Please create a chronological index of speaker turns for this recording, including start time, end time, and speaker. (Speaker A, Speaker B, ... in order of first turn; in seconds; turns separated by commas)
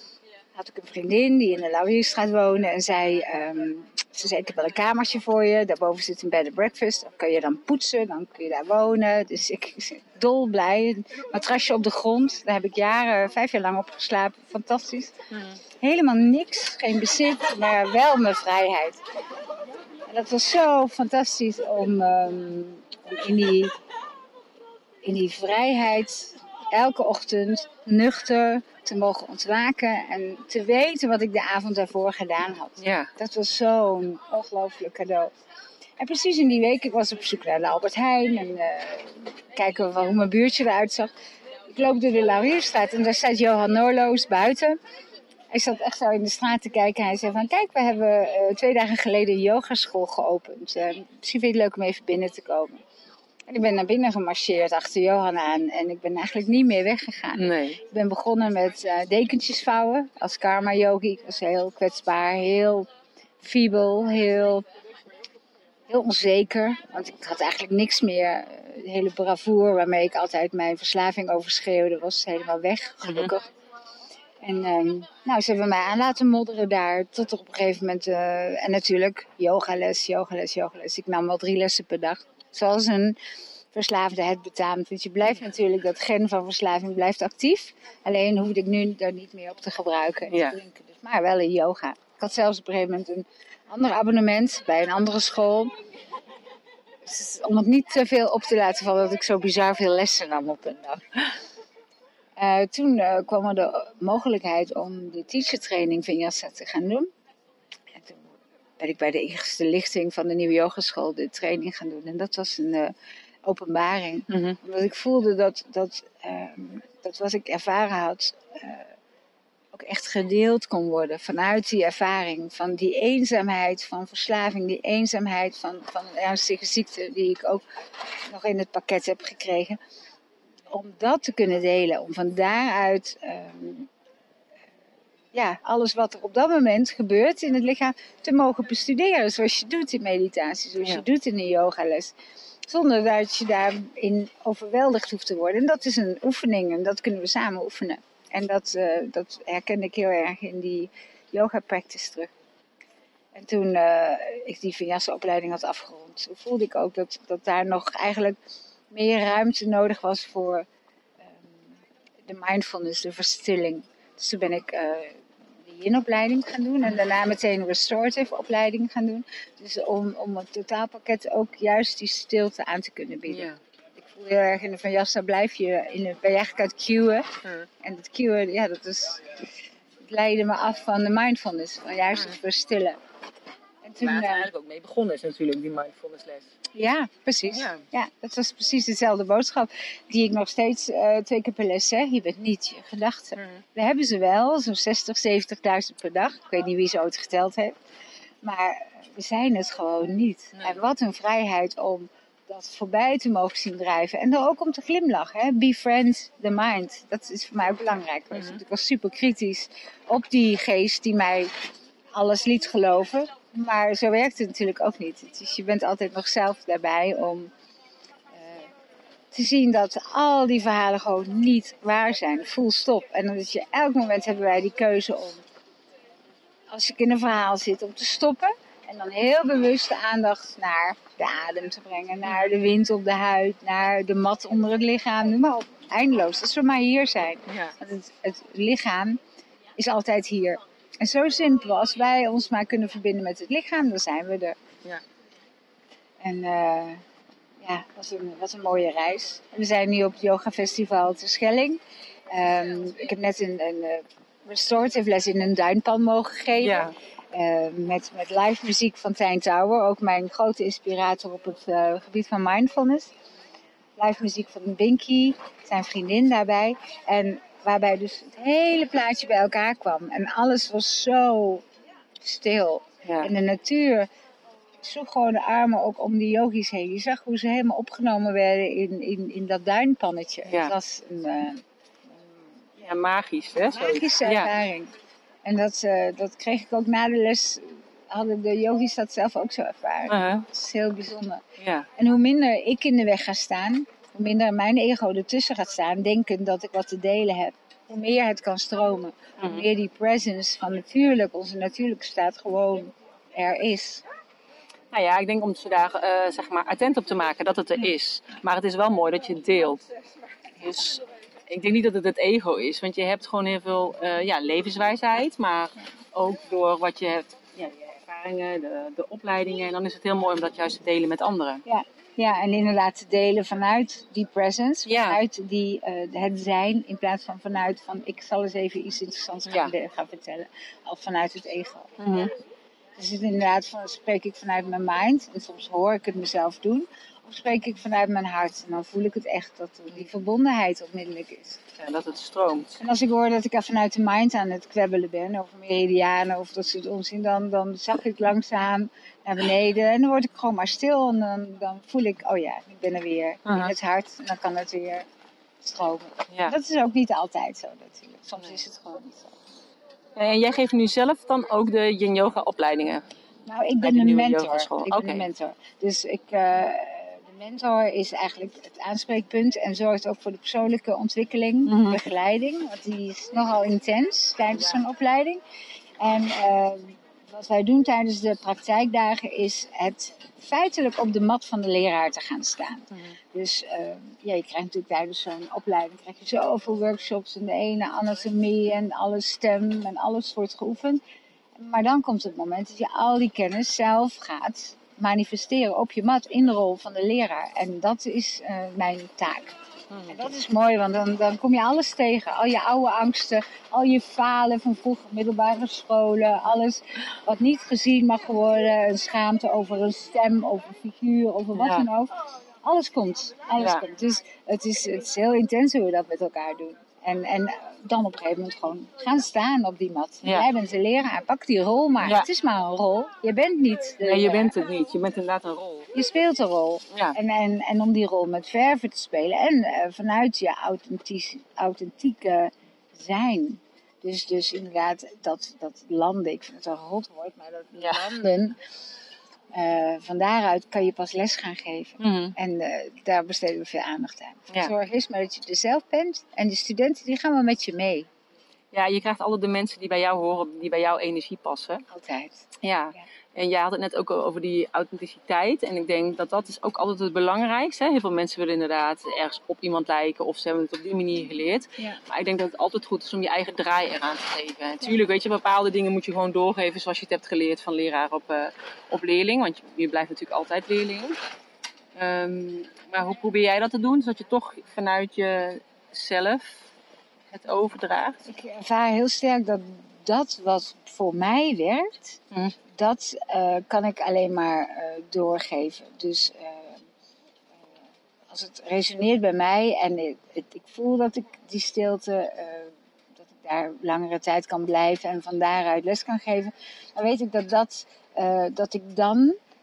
Speaker A: 0.5-15.1, Speaker B: 15.3-15.6, Speaker A: 15.7-19.0, Speaker A: 20.1-23.8, Speaker A: 25.0-35.3, Speaker B: 32.8-33.1, Speaker A: 36.0-41.1, Speaker A: 41.7-44.8, Speaker A: 45.5-52.8, Speaker A: 53.5-62.9, Speaker B: 57.3-57.8, Speaker A: 63.4-64.7, Speaker A: 65.9-73.5, Speaker B: 73.0-73.3, Speaker A: 74.4-83.2, Speaker A: 83.7-95.7, Speaker B: 90.3-90.6, Speaker A: 97.0-101.2, Speaker A: 102.4-107.1, Speaker A: 108.0-108.2, Speaker A: 108.8-118.9, Speaker B: 114.3-114.6, Speaker A: 119.7-129.8, Speaker A: 130.7-133.9, Speaker A: 135.3-142.1, Speaker A: 142.7-152.3, Speaker A: 153.3-158.3, Speaker A: 158.9-160.7, Speaker A: 161.2-177.3, Speaker B: 173.3-173.6, Speaker B: 177.4-177.7, Speaker A: 177.8-179.3, Speaker A: 180.0-183.0, Speaker A: 183.8-184.5, Speaker B: 184.0-186.5, Speaker A: 186.7-197.7, Speaker B: 187.5-187.8, Speaker B: 193.3-193.6, Speaker A: 198.4-211.5, Speaker B: 208.3-208.6, Speaker A: 212.1-217.5, Speaker A: 218.3-218.7, Speaker A: 219.3-225.4, Speaker A: 226.7-239.2, Speaker B: 232.2-232.6, Speaker B: 237.5-237.7, Speaker A: 239.8-244.6, Speaker A: 246.2-247.0, Speaker A: 247.6-263.1, Speaker B: 256.6-256.9, Speaker A: 264.0-271.6, Speaker A: 272.2-274.1, Speaker B: 273.0-273.3, Speaker A: 274.8-281.6, Speaker B: 280.5-280.7, Speaker B: 282.8-284.5, Speaker A: 283.7-284.9, Speaker A: 285.4-291.4, Speaker B: 290.1-290.4, Speaker B: 291.6-291.9, Speaker A: 291.9-304.0, Speaker B: 299.4-299.7, Speaker B: 304.9-309.8, Speaker B: 310.6-321.6, Speaker A: 321.6-332.3, Speaker B: 324.9-325.2, Speaker B: 329.5-329.7, Speaker B: 332.0-332.3, Speaker A: 332.9-341.6, Speaker B: 341.8-342.8, Speaker A: 342.8-355.0, Speaker B: 353.4-353.7, Speaker A: 355.6-359.3, Speaker B: 360.1-363.0, Speaker A: 363.4-375.4, Speaker B: 363.8-365.3, Speaker B: 371.6-372.0, Speaker A: 376.0-391.0, Speaker B: 382.9-383.2, Speaker A: 391.6-399.6, Speaker B: 399.9-400.2, Speaker A: 400.1-424.5, Speaker B: 411.5-411.9, Speaker B: 413.6-413.8, Speaker B: 422.0-422.3, Speaker B: 424.0-425.9, Speaker A: 425.9-438.6, Speaker B: 426.9-427.2, Speaker B: 437.8-438.0, Speaker A: 439.5-448.1, Speaker B: 442.0-442.4, Speaker B: 448.7-451.8, Speaker A: 451.9-453.0, Speaker B: 452.6-471.2, Speaker B: 471.9-476.7, Speaker B: 477.3-478.2, Speaker A: 478.2-482.2, Speaker A: 482.7-486.8, Speaker A: 488.3-499.4